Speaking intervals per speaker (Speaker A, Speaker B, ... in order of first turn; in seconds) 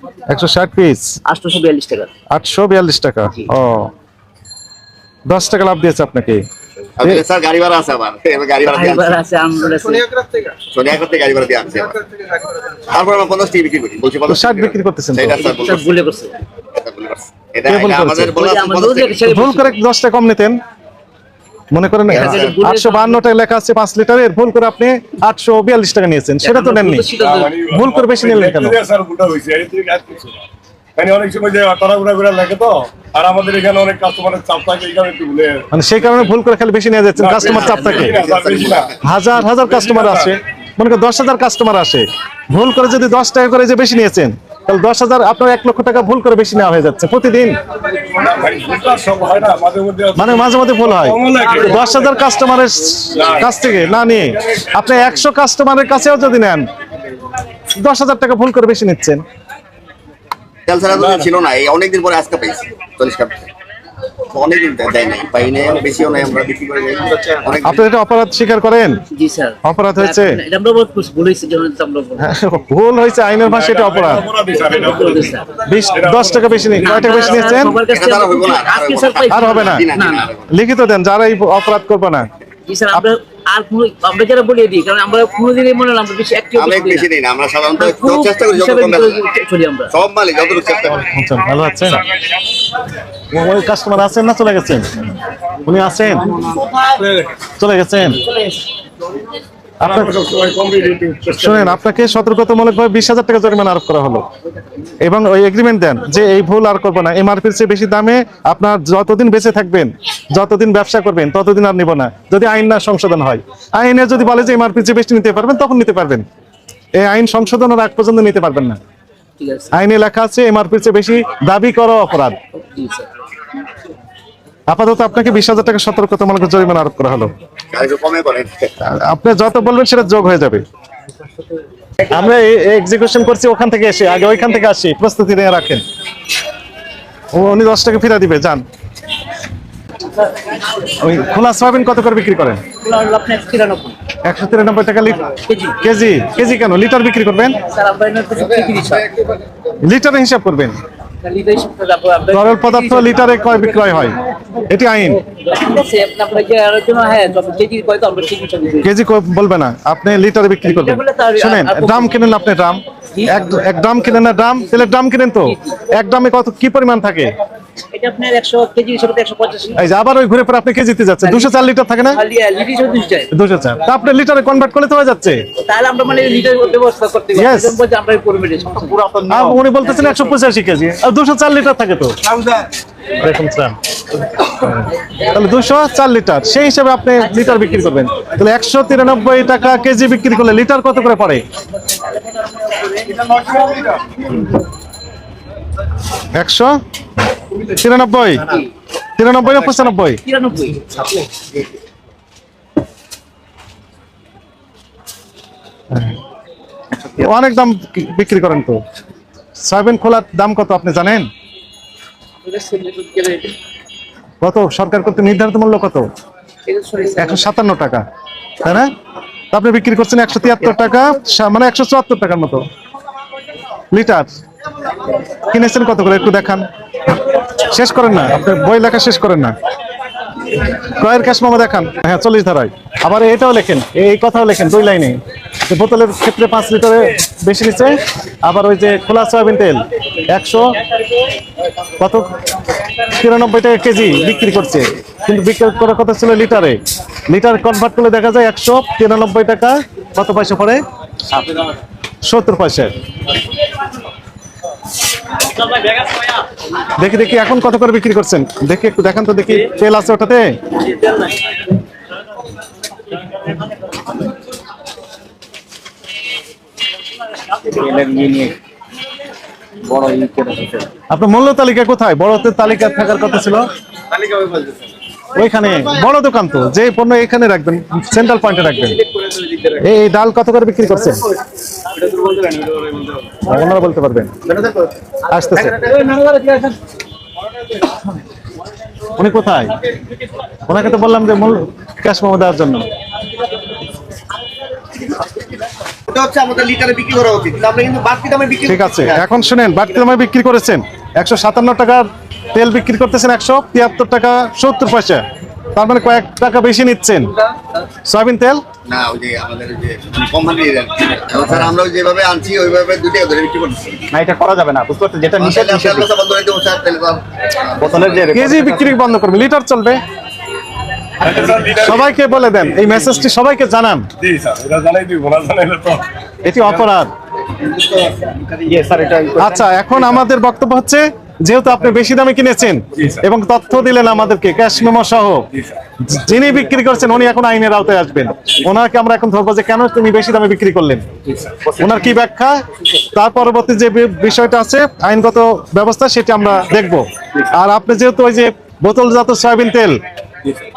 Speaker A: 0.3-1.2, 2.3-3.9, 5.3-6.5, 14.3-15.4, 17.7-18.4, 19.2-20.6, 21.7-27.1, 27.7-28.8, 35.7-38.2, 39.0-47.6, 50.2-56.7, 57.7-59.2, 67.6-69.0, 69.6-70.4, 72.2-74.3, 75.7-77.8, 79.3-79.9, 80.5-82.3, 90.9-92.0, 93.3-94.9, 95.6-96.3, 97.6-98.2, 99.8-100.2, 101.3-104.2, 105.0-116.2, 117.0-118.8, 119.7-122.4, 124.7-127.3, 128.8-130.7, 132.1-135.8, 137.3-138.6, 140.9-142.6, 144.2-147.6, 149.8-150.8, 152.3-154.2, 154.7-155.2, 158.8-167.4, 169.8-172.2, 173.3-175.4, 177.3-177.8, 179.3-182.2, 183.2-183.8, 184.5-191.4, 196.3-196.8, 197.7-198.6, 199.2-200.2, 205.9-206.2, 207.1-208.8, 209.6-211.3, 214.4-216.1, 217.2-218.0, 218.6-218.9, 219.5-222.6, 223.9-224.4, 225.4-226.7, 227.5-229.6, 230.7-240.7, 242.0-242.3, 243.1-250.8, 252.2-253.0, 257.0-260.8, 271.1-273.7, 275.3-279.1, 279.8-281.3, 283.4-284.3, 285.2-285.8, 289.1-289.8, 290.7-292.9, 298.7-305.2, 305.7-307.4, 308.1-308.7, 318.2-320.0, 321.7-324.1, 326.4-327.1, 329.4-335.5, 336.0-341.1, 341.7-350.0
Speaker B: 1.2-2.1, 8.7-10.1, 15.3-16.4, 18.4-19.8, 22.2-23.2, 26.4-27.6, 37.4-38.1, 69.1-72.3, 74.6-75.5, 76.8-80.3, 82.7-87.1, 87.8-89.9, 119.4-119.7, 122.5-123.1, 142.8-144.0, 145.4-145.8, 147.7-149.2, 151.2-153.9, 155.3-158.9, 160.6-162.2, 163.1-163.4, 165.4-165.8, 167.9-169.8, 171.2-173.3, 175.6-179.0, 187.2-188.0, 200.2-200.9, 212.4-213.6, 216.7-217.5
Speaker C: 7.0-9.1, 10.6-12.0, 12.9-15.9, 16.7-19.2, 22.1-22.6, 37.7-39.0, 60.7-63.4, 64.3-67.8, 77.8-80.5, 86.5-89.2, 89.9-91.0, 127.7-128.7, 296.1-299.2, 308.9-314.1, 315.4-318.3
Speaker D: 27.2-30.4, 31.0-35.7, 37.1-40.4, 48.1-52.2, 53.1-55.0, 60.9-61.3, 73.4-77.7, 99.8-101.8, 321.2-323.2, 324.2-326.1, 333.0-333.2, 335.5-335.8
Speaker E: 178.9-179.7, 267.6-268.6, 269.8-270.9, 274.2-274.8, 281.9-283.3, 284.6-284.9, 285.9-286.7, 314.1-316.1, 317.8-318.9, 327.6-329.6